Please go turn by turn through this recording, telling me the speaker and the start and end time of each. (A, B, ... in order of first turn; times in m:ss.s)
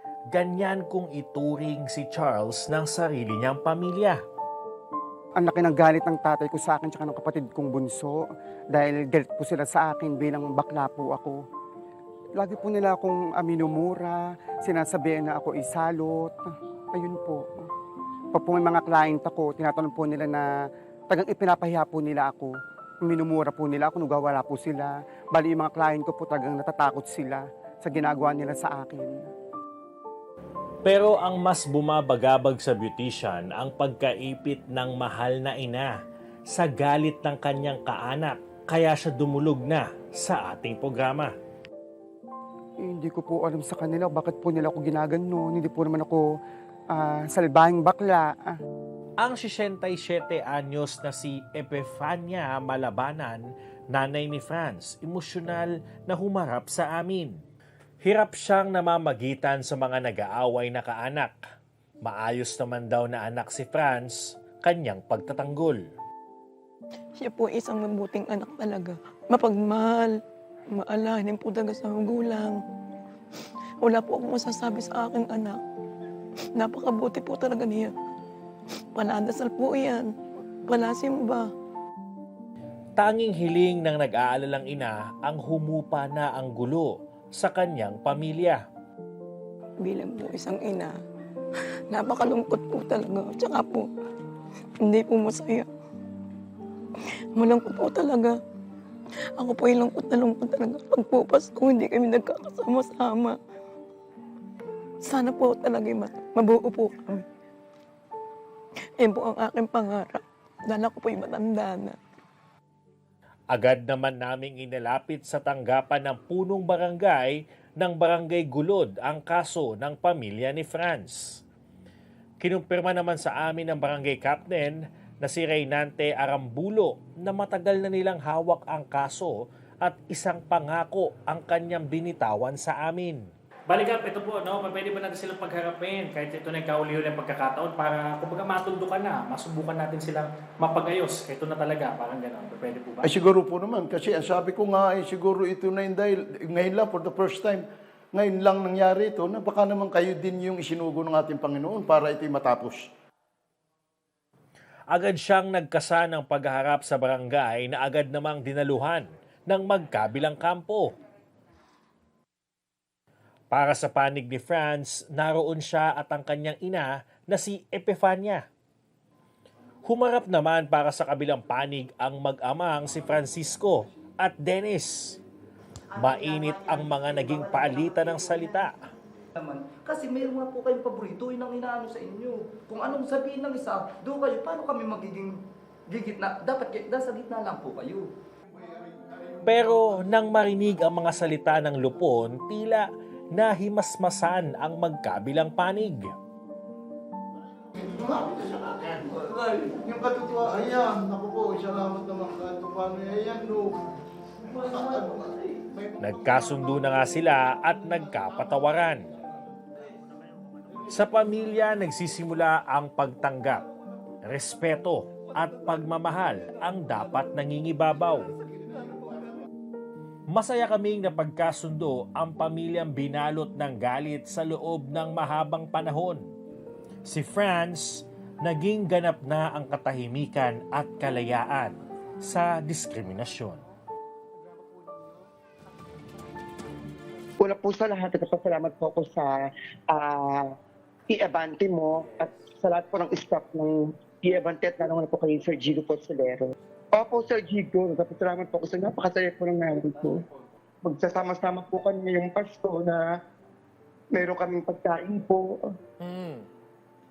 0:00.3-0:04.2 A
0:05.4-0:11.4 B
0:12.4-0:17.7 B
0:18.3-0:20.5 B
0:21.1-0:22.5 B
0:23.0-0:29.2 B
0:30.8-0:35.9 A
0:36.5-0:41.3 A
0:42.8-0:46.3 B
0:46.9-0:48.5 B
0:49.2-0:57.4 A
0:58.0-1:01.3 A
1:02.0-1:05.8 A
1:07.2-1:10.1 C
1:10.7-1:12.6 C
1:13.8-1:15.6 C
1:16.6-1:17.9 C
1:18.9-1:20.1 C
1:20.7-1:21.5 C
1:23.0-1:28.6 A
1:29.8-1:30.9 C
1:31.9-1:33.9 C
1:34.8-1:35.7 C
1:37.4-1:38.4 C
1:39.4-1:43.4 C
1:45.0-1:47.2 C
1:49.0-1:52.0 C
1:53.5-2:01.4 A
2:02.4-2:23.1 A
2:23.0-2:32.9 D
2:34.9-2:40.9 A
2:43.5-2:48.4 A
2:49.8-2:55.2 A
2:55.9-2:58.8 A
2:59.4-3:05.4 E
3:05.9-3:08.1 E
3:09.4-3:16.1 A
3:17.7-3:23.9 D
3:24.7-3:26.6 D
3:26.0-3:29.1 A
3:30.8-3:33.6 A
3:34.2-3:38.3 A
3:40.3-3:46.2 A
3:47.0-3:53.6 A
3:57.4-4:00.5 F
4:01.1-4:10.2 F
4:10.8-4:13.1 F
4:14.1-4:15.6 F
4:16.0-4:16.4 A